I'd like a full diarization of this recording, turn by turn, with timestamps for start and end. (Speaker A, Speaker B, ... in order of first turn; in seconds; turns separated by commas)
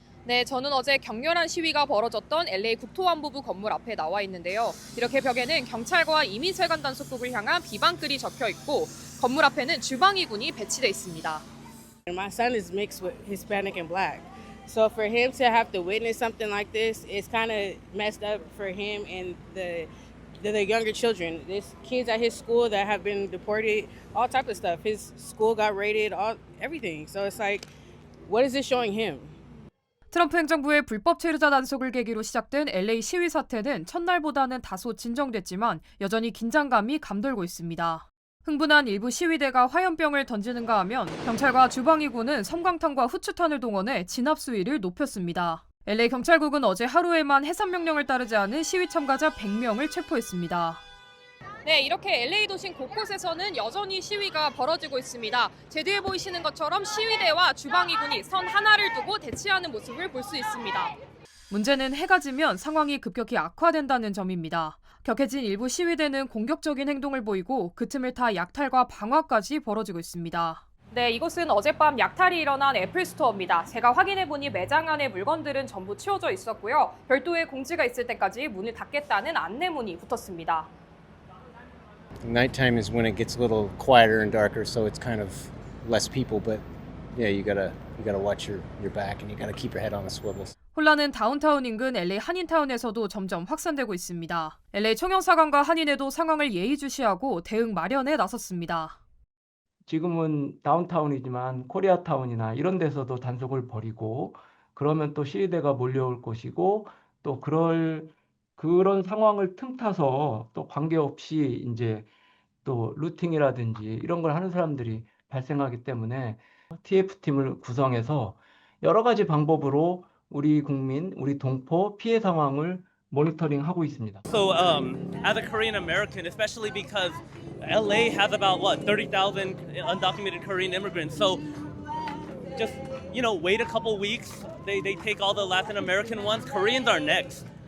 Speaker A: 0.2-11.4, Speaker B: 12.1-27.7, Speaker B: 28.3-29.3, Speaker A: 30.1-50.8, Speaker A: 51.6-60.9, Speaker A: 61.5-80.7, Speaker C: 82.2-86.6, Speaker C: 87.2-90.5, Speaker A: 90.7-99.0, Speaker D: 99.9-112.1, Speaker D: 112.7-124.2, Speaker E: 124.3-131.4, Speaker E: 132.6-137.4